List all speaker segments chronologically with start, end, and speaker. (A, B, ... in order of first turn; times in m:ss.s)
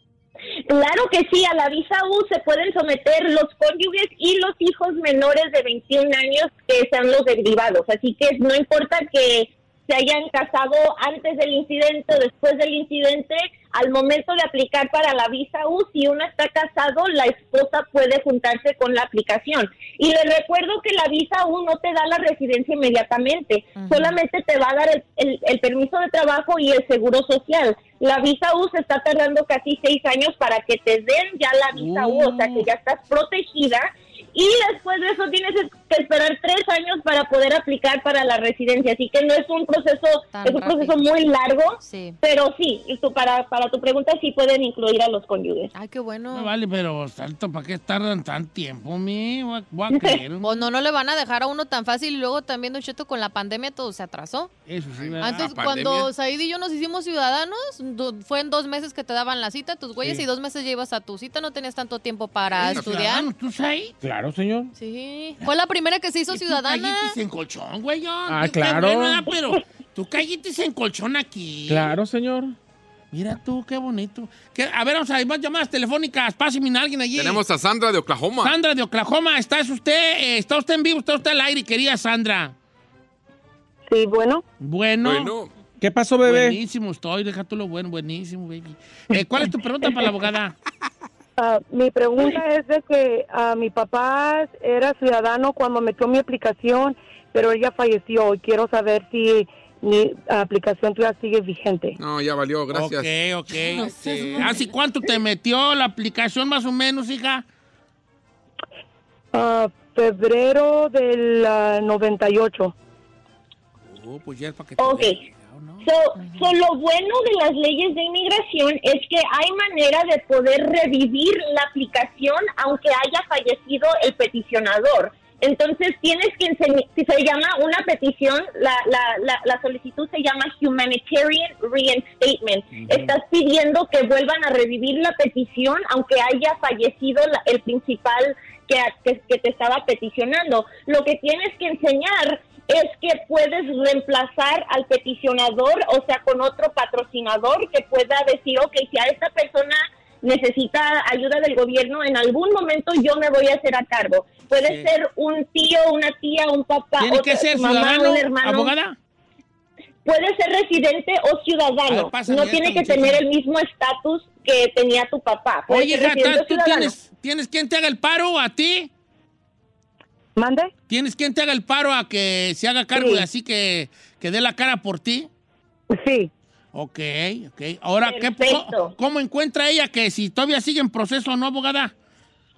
0:00.7-0:45.7 A
0:23.8-0:24.2 B
0:31.7-0:32.7 C
0:40.3-0:41.0 B
0:41.8-0:42.2 B
0:45.7-0:46.5 B
0:46.3-0:50.7 C
0:49.9-0:50.2 A
0:50.4-0:54.5 B
0:54.7-0:55.5 C
0:55.0-0:56.1 D
0:55.2-1:03.3 B
1:02.5-1:03.9 C
1:04.0-1:04.7 E
1:04.8-1:07.2 B
1:06.3-1:12.0 C
1:08.3-1:09.2 E
1:11.7-1:12.6 E
1:13.1-1:17.4 C
1:17.2-1:18.6 D
1:18.4-1:22.5 C
1:23.9-1:24.4 F
1:24.6-1:25.3 C
1:25.0-1:25.5 D
1:25.8-1:26.6 E
1:26.2-1:30.6 C
1:31.4-1:42.0 F
1:42.0-1:43.1 D
1:42.7-1:47.4 C
1:43.8-1:44.5 B
1:49.3-1:52.7 F
1:53.9-1:55.9 C
1:54.8-1:55.2 A
1:55.8-2:38.7 A
1:56.2-1:56.5 B
2:34.6-2:34.9 C
2:37.0-2:39.0 C
2:40.0-2:46.9 A
2:41.9-2:43.2 C
2:45.7-2:48.9 C
2:50.4-2:50.7 F
2:50.9-2:55.3 C
2:53.0-2:53.2 F
2:55.9-2:56.3 F
2:56.7-3:01.9 C
2:58.1-2:58.9 A